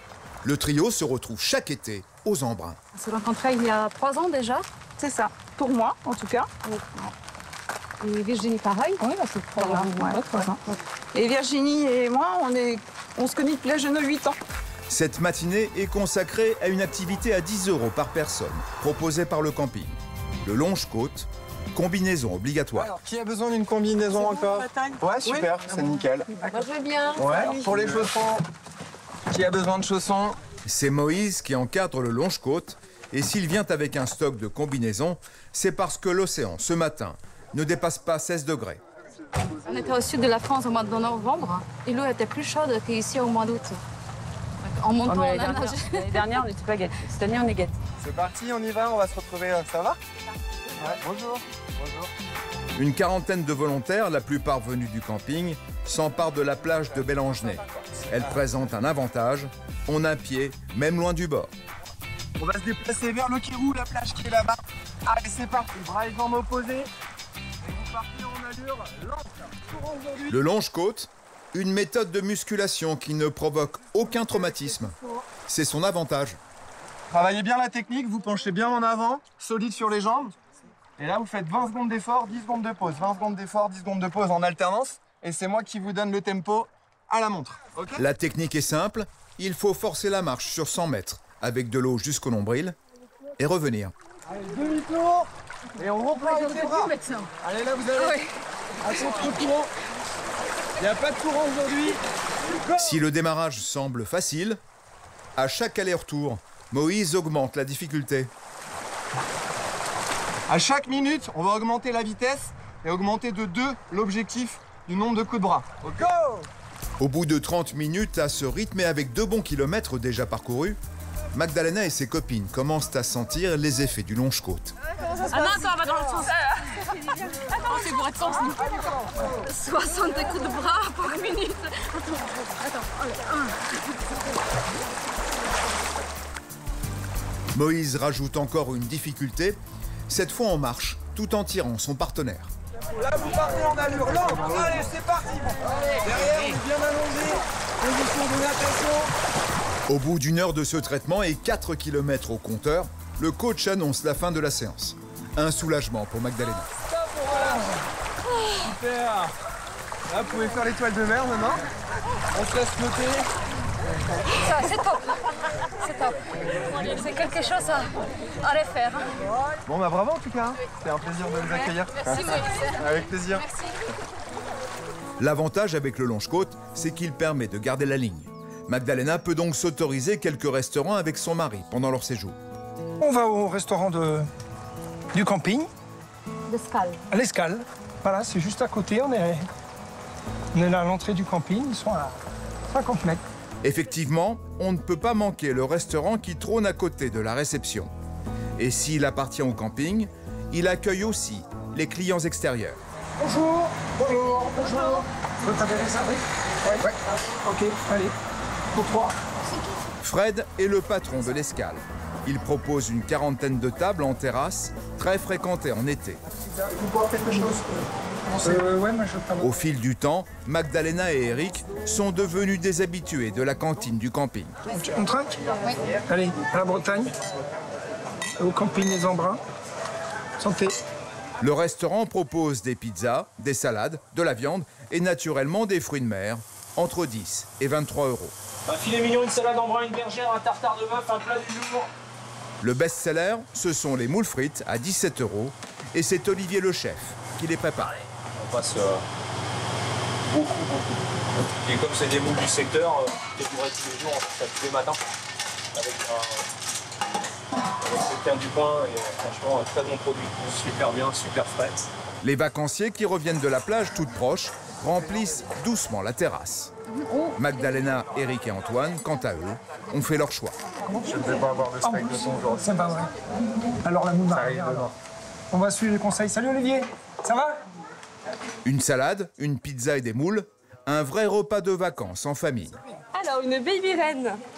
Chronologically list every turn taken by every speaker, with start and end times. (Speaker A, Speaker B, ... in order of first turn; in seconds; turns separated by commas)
Speaker A: 0.4-2.8, Speaker B: 2.9-4.7, Speaker C: 5.0-6.5, Speaker B: 8.0-10.3, Speaker C: 9.1-10.6, Speaker C: 11.1-14.4, Speaker A: 14.9-22.9, Speaker D: 22.8-26.3, Speaker C: 24.1-28.1, Speaker D: 27.2-28.4, Speaker D: 29.3-30.4, Speaker A: 30.6-38.8, Speaker B: 39.6-43.8, Speaker B: 44.6-46.4, Speaker E: 45.1-47.8, Speaker D: 48.0-50.0, Speaker D: 50.8-52.1, Speaker A: 52.8-61.5, Speaker D: 62.4-66.9, Speaker D: 67.6-70.3, Speaker A: 70.3-75.0, Speaker A: 75.5-76.4, Speaker D: 77.1-80.3, Speaker D: 81.0-88.0, Speaker A: 88.0-92.8, Speaker A: 93.4-93.9, Speaker D: 94.3-98.2, Speaker B: 96.2-97.3, Speaker B: 98.0-98.3, Speaker D: 98.8-99.7, Speaker D: 100.8-102.0, Speaker D: 102.6-103.0, Speaker A: 102.8-104.6, Speaker A: 105.4-108.3, Speaker D: 110.5-116.5, Speaker A: 117.0-120.8, Speaker A: 121.3-124.7, Speaker B: 125.2-126.3, Speaker B: 127.1-128.7, Speaker B: 129.2-133.7, Speaker A: 137.5-142.5, Speaker D: 143.0-149.1, Speaker A: 149.9-156.7, Speaker D: 157.2-157.6, Speaker D: 158.8-159.2, Speaker D: 160.1-161.7, Speaker D: 162.3-163.3, Speaker B: 164.3-169.1, Speaker D: 169.7-173.5, Speaker B: 172.1-172.8, Speaker A: 175.2-182.4, Speaker F: 183.0-184.3, Speaker F: 185.1-185.7, Speaker B: 186.5-187.0, Speaker F: 187.1-189.5, Speaker F: 190.5-193.2, Speaker A: 193.6-197.9, Speaker A: 198.6-202.8, Speaker F: 203.2-208.1, Speaker F: 208.7-209.1, Speaker A: 210.0-216.2, Speaker F: 216.5-219.5, Speaker A: 219.4-224.6, Speaker F: 224.7-225.3, Speaker F: 226.1-227.2, Speaker F: 228.4-229.4, Speaker F: 230.4-230.8, Speaker A: 231.4-238.3, Speaker G: 238.7-241.9, Speaker A: 242.6-248.0, Speaker G: 248.4-249.0, Speaker G: 250.3-255.0, Speaker G: 255.7-256.4, Speaker G: 257.8-261.9, Speaker A: 262.2-266.7, Speaker B: 266.9-267.4, Speaker A: 267.4-270.6, Speaker F: 270.9-274.9, Speaker F: 275.5-277.6, Speaker A: 278.6-282.8, Speaker C: 283.1-284.4